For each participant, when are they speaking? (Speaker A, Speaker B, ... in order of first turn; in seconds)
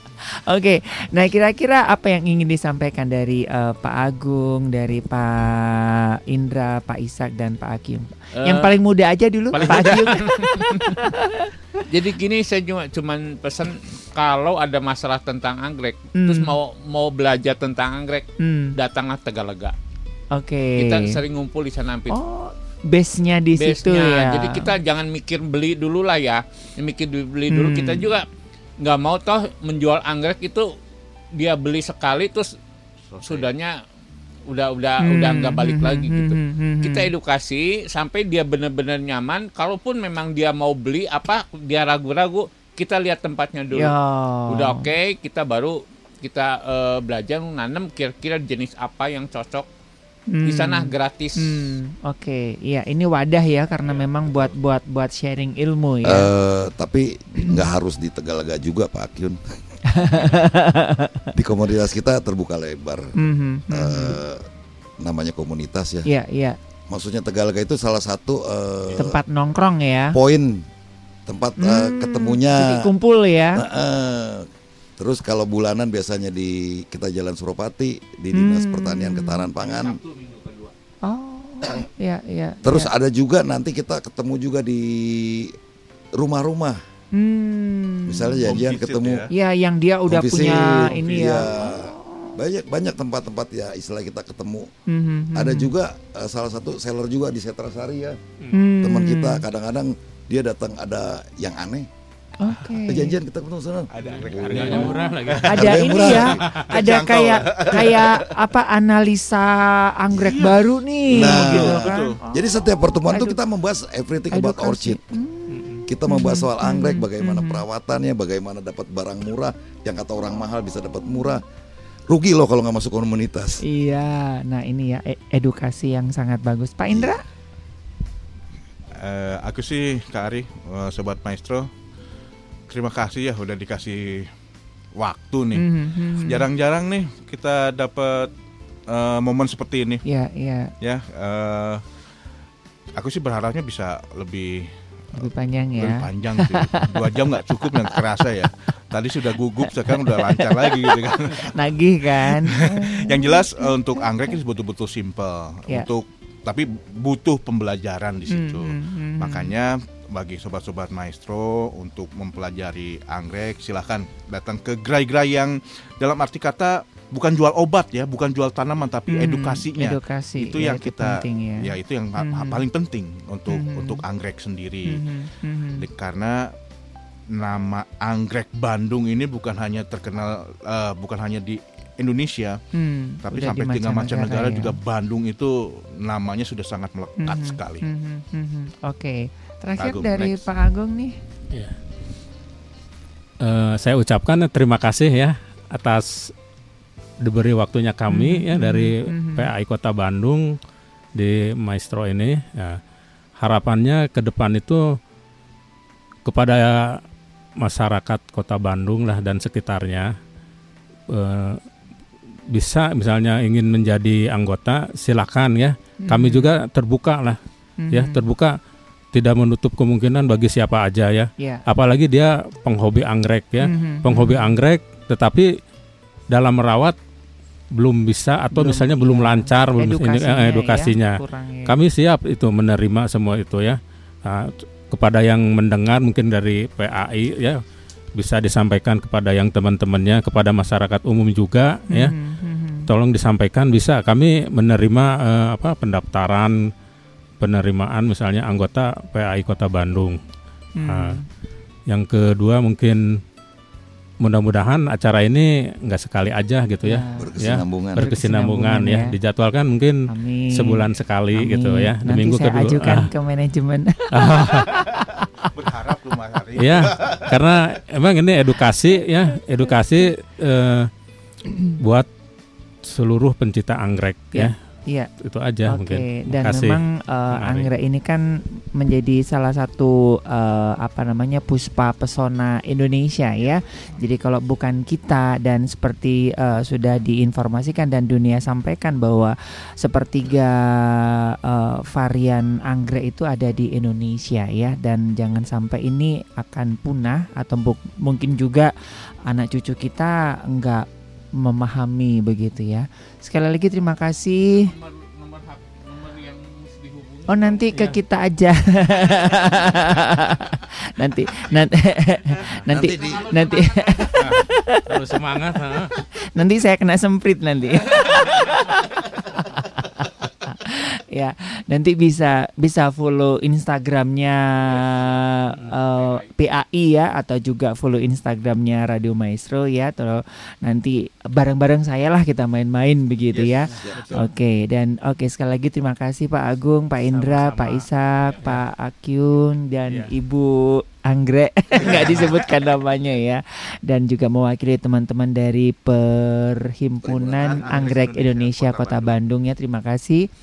Speaker A: 0.5-11.8, 16.1-16.5, 18.4-18.7, 20.3-21.2, 22.1-24.7, 27.5-28.1, 35.0-37.1, 43.7-44.9, 50.3-56.3, 59.9-61.3, 63.2-64.2, 66.1-66.6, 69.0-70.2, 71.6-73.6, 78.3-79.5, 81.0-82.9, 87.2-88.4, 89.3-92.3, 94.9-95.7, 98.5-99.4, 102.4-103.2, 105.5-112.5, 113.1-113.4, 114.3-117.6, 123.6-127.2, 135.6-136.5, 140.1-140.7, 145.2-147.0, 149.7-154.4, 158.3-159.5, 169.1-172.6, 173.5-174.0, 174.9-175.8, 182.8-184.8, 187.2-191.2, 198.1-199.5, 216.0-216.5, 217.8-218.2, 223.6-224.5, 228.5-231.8, 241.9-242.9, 250.8-251.3, 256.9-257.3, 258.0-259.1, 260.1-265.5, 274.3-275.1, 275.7-278.2, 278.7-298.7, 299.2-304.7, 307.3-314.9, 316.3-350.3
Speaker B: 8.4-8.8, 9.5-10.9, 11.9-19.8, 20.8-22.1, 23.6-28.3, 28.8-30.7, 31.4-32.5, 33.2-33.7, 34.5-43.9, 44.5-49.7, 50.4-51.8, 79.8-80.7, 304.5-307.8, 312.8-314.4, 324.7-326.3
Speaker C: 9.6-10.0, 33.1-33.5, 53.8-54.5, 88.4-89.3, 90.9-91.7, 103.9-108.4, 110.2-112.2, 129.0-131.7, 132.7-134.3, 135.0-138.3, 138.9-140.1, 140.8-141.8, 143.0-151.6, 152.2-175.1, 175.7-176.5, 177.4-182.6, 183.2-187.9, 189.8-190.5, 265.5-267.5, 347.3-349.1
Speaker D: 56.0-59.6, 61.4-63.1, 63.7-64.5, 65.0-66.1, 66.9-69.2, 70.1-70.7, 71.3-72.9, 73.5-80.0, 82.6-85.5, 86.2-86.8, 88.1-89.3, 90.1-94.7, 95.3-98.2, 98.8-101.9, 102.8-106.4, 111.1-115.0, 115.9-121.4, 122.1-123.6, 126.9-127.2, 257.2-258.0, 312.7-313.5, 333.4-334.1, 347.0-348.0
Speaker E: 104.0-105.8, 115.5-115.8, 193.4-196.3, 197.2-200.6, 201.2-202.8, 203.4-205.0, 206.3-207.0, 207.6-210.1, 211.1-211.6, 212.5-217.4, 217.9-218.5, 219.1-225.5, 226.3-227.0, 227.8-237.6, 238.2-242.2, 242.9-246.6, 247.4-250.2, 250.8-251.2, 251.9-253.0, 254.2-263.1, 264.1-264.7, 266.6-270.9, 271.8-272.1, 272.9-274.6, 275.2-276.8, 277.3-277.7, 314.2-315.9, 337.1-337.9